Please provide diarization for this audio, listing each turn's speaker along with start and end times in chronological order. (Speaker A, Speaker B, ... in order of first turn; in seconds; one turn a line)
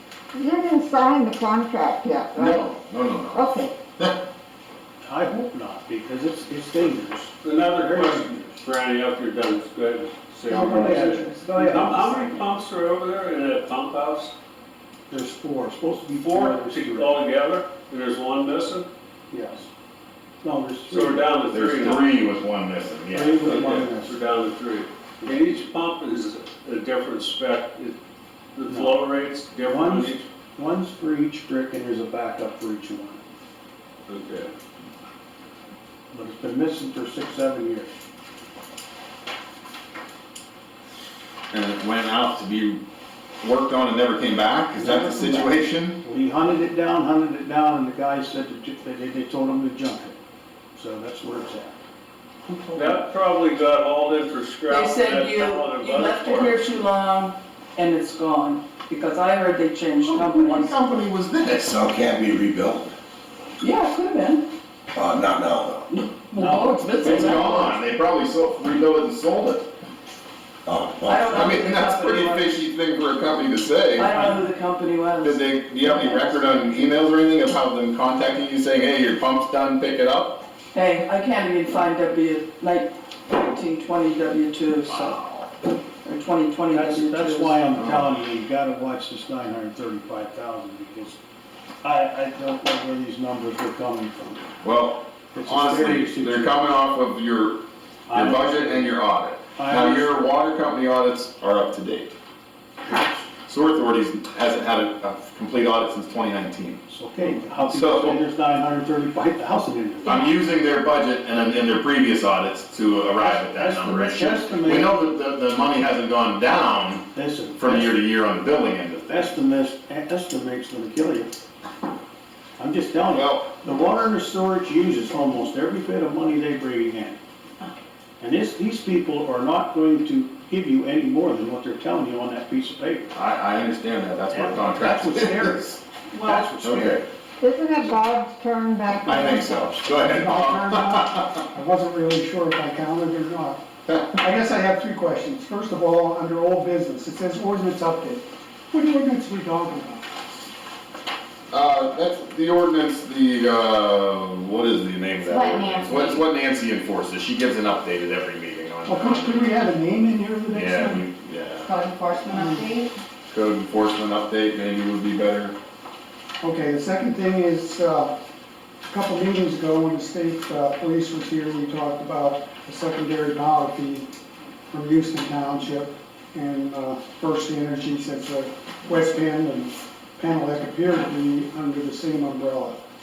Speaker A: 0.3-2.7
Speaker B: 2.3-4.2
Speaker A: 3.3-3.7
Speaker C: 5.0-8.6
Speaker D: 7.4-14.3
Speaker C: 10.4-12.5
Speaker C: 15.1-17.2
Speaker D: 16.2-18.9
Speaker C: 19.3-19.7
Speaker C: 20.4-21.2
Speaker D: 20.9-22.0
Speaker B: 21.4-23.9
Speaker C: 23.1-24.1
Speaker D: 23.4-28.0
Speaker C: 25.2-25.6
Speaker D: 28.5-30.3
Speaker C: 28.6-29.1
Speaker C: 29.6-33.2
Speaker D: 34.1-34.5
Speaker C: 36.1-37.9
Speaker B: 41.5-42.8
Speaker B: 43.4-46.0
Speaker C: 44.7-50.2
Speaker C: 50.7-51.8
Speaker E: 52.5-52.9
Speaker D: 52.7-56.7
Speaker E: 54.7-60.8
Speaker B: 60.0-61.7
Speaker F: 61.6-62.9
Speaker E: 63.6-64.4
Speaker F: 64.9-65.8
Speaker E: 65.9-67.7
Speaker C: 66.3-67.3
Speaker B: 67.0-69.7
Speaker F: 70.7-71.5
Speaker E: 71.0-72.5
Speaker B: 71.3-74.3
Speaker E: 74.0-76.9
Speaker B: 75.2-80.4
Speaker E: 80.7-85.2
Speaker B: 84.9-85.5
Speaker E: 86.0-87.6
Speaker C: 86.7-91.2
Speaker B: 87.7-88.1
Speaker C: 91.8-94.6
Speaker B: 94.6-102.1
Speaker C: 95.3-96.5
Speaker C: 98.1-99.0
Speaker C: 99.5-100.2
Speaker C: 102.8-103.2
Speaker B: 103.5-108.2
Speaker C: 106.9-110.2
Speaker B: 110.0-119.3
Speaker C: 113.2-115.0
Speaker C: 117.1-118.0
Speaker C: 119.1-121.3
Speaker C: 122.6-127.2
Speaker B: 123.0-123.5
Speaker C: 128.2-133.1
Speaker B: 133.1-135.8
Speaker C: 134.3-137.1
Speaker B: 136.3-137.0
Speaker A: 137.4-139.6
Speaker G: 138.9-150.2
Speaker B: 139.0-141.4
Speaker B: 143.9-144.2
Speaker B: 151.5-159.6
Speaker H: 155.3-156.2
Speaker G: 158.8-161.0
Speaker B: 160.5-161.7
Speaker H: 161.9-162.9
Speaker G: 162.3-162.6
Speaker B: 163.3-165.5
Speaker G: 166.4-168.1
Speaker G: 168.8-174.1
Speaker G: 174.7-182.8